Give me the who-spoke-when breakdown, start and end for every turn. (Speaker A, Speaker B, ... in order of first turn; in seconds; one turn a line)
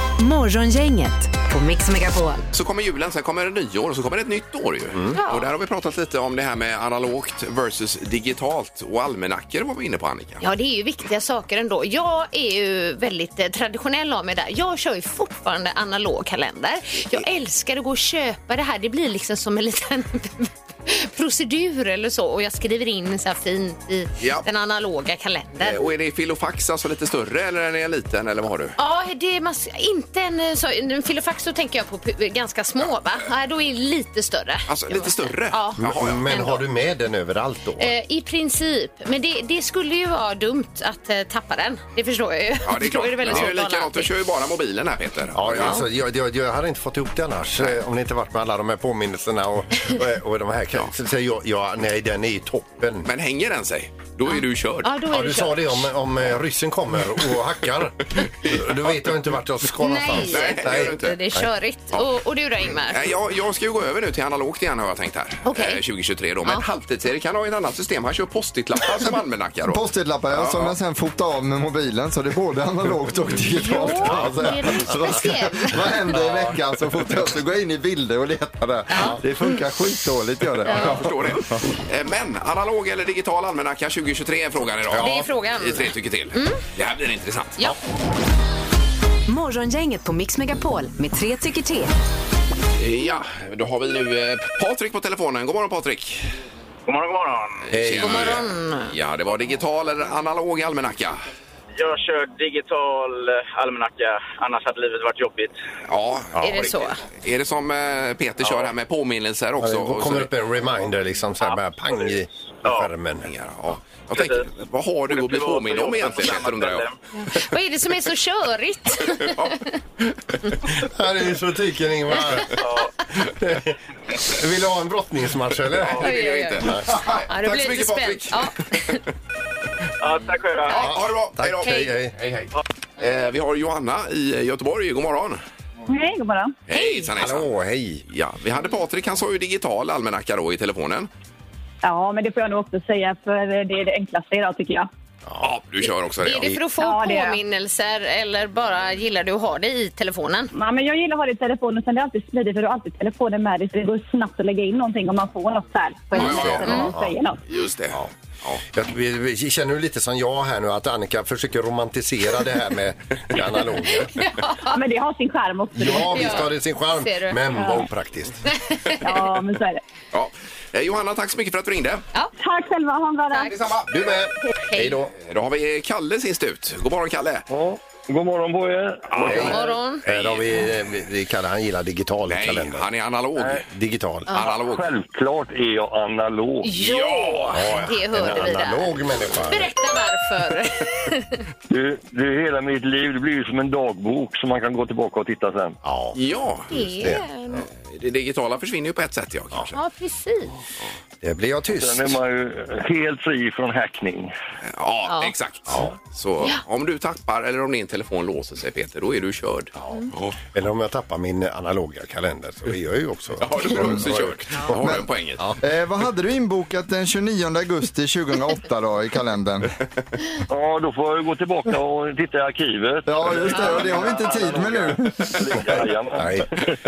Speaker A: 0.2-2.4
Speaker B: 2.5-10.4
Speaker C: 4.9-5.2
Speaker D: 5.1-5.5
Speaker D: 10.4-25.9
Speaker B: 24.2-24.5
Speaker B: 25.6-28.8
Speaker D: 28.8-36.6
Speaker B: 34.7-36.5
Speaker C: 35.8-37.9
Speaker D: 37.8-44.1
Speaker B: 42.6-45.9
Speaker C: 45.3-53.1
Speaker B: 53.0-54.9
Speaker D: 54.3-55.9
Speaker C: 55.1-61.5
Speaker D: 59.8-63.1
Speaker B: 60.2-61.2
Speaker B: 62.8-70.8
Speaker D: 65.5-65.8
Speaker E: 69.7-81.4
Speaker D: 73.6-76.0
Speaker C: 73.9-75.2
Speaker C: 76.1-76.5
Speaker D: 78.9-79.5
Speaker D: 80.7-81.0
Speaker B: 80.7-87.7
Speaker C: 84.9-85.3
Speaker D: 85.0-86.6
Speaker A: 89.3-91.9
Speaker B: 92.8-96.3
Speaker F: 96.9-97.7
Speaker B: 97.7-101.2
Speaker C: 97.7-98.4
Speaker D: 98.0-98.9
Speaker F: 101.8-105.6
Speaker B: 105.9-110.3
Speaker D: 106.4-107.0
Speaker C: 109.6-113.3
Speaker B: 113.2-116.9
Speaker F: 114.1-114.5
Speaker F: 115.1-117.0
Speaker D: 117.2-119.7
Speaker B: 119.1-119.6
Speaker C: 120.7-127.2
Speaker F: 122.6-122.9
Speaker B: 125.7-129.0
Speaker D: 126.0-129.0
Speaker F: 130.0-130.8
Speaker D: 130.7-130.9
Speaker B: 130.7-135.4
Speaker C: 130.7-132.1
Speaker D: 131.6-131.9
Speaker G: 135.9-136.5
Speaker B: 136.7-137.5
Speaker D: 136.7-137.1
Speaker C: 137.2-138.0
Speaker B: 138.1-141.1
Speaker G: 141.8-144.9
Speaker C: 145.3-145.5
Speaker B: 145.4-146.6
Speaker D: 146.2-150.5
Speaker G: 146.8-147.4
Speaker G: 150.5-157.4
Speaker B: 156.1-157.0
Speaker D: 156.2-156.9
Speaker C: 156.2-157.1
Speaker B: 157.5-158.6
Speaker C: 158.7-164.2
Speaker D: 163.9-164.8
Speaker G: 164.7-166.5
Speaker C: 165.7-168.4
Speaker D: 166.1-167.4
Speaker G: 167.5-167.9
Speaker D: 168.5-169.2
Speaker G: 169.0-169.8
Speaker B: 170.1-172.1
Speaker G: 172.4-173.6
Speaker D: 173.3-173.7
Speaker B: 173.5-174.2
Speaker C: 173.9-175.1
Speaker D: 174.6-175.0
Speaker B: 175.2-177.4
Speaker H: 177.5-179.6
Speaker C: 179.2-182.9
Speaker D: 179.4-180.1
Speaker B: 180.1-180.7
Speaker B: 182.3-183.7
Speaker C: 183.7-184.4
Speaker D: 184.3-184.5
Speaker B: 184.3-184.9
Speaker H: 184.6-186.7
Speaker D: 186.6-188.9
Speaker B: 186.7-187.8
Speaker C: 187.5-189.7
Speaker D: 189.5-191.4
Speaker H: 191.7-195.8
Speaker C: 195.8-196.2
Speaker B: 196.1-196.7
Speaker D: 196.7-197.6
Speaker C: 196.7-197.7
Speaker B: 197.7-199.8
Speaker D: 199.7-200.6
Speaker C: 201.2-202.2
Speaker H: 201.7-204.3
Speaker B: 204.7-210.4
Speaker D: 205.1-205.3
Speaker C: 205.7-205.9
Speaker C: 209.8-215.6
Speaker B: 213.4-215.4
Speaker E: 215.6-219.7
Speaker H: 220.5-226.7
Speaker E: 223.1-225.4
Speaker D: 223.5-223.9
Speaker C: 225.6-226.5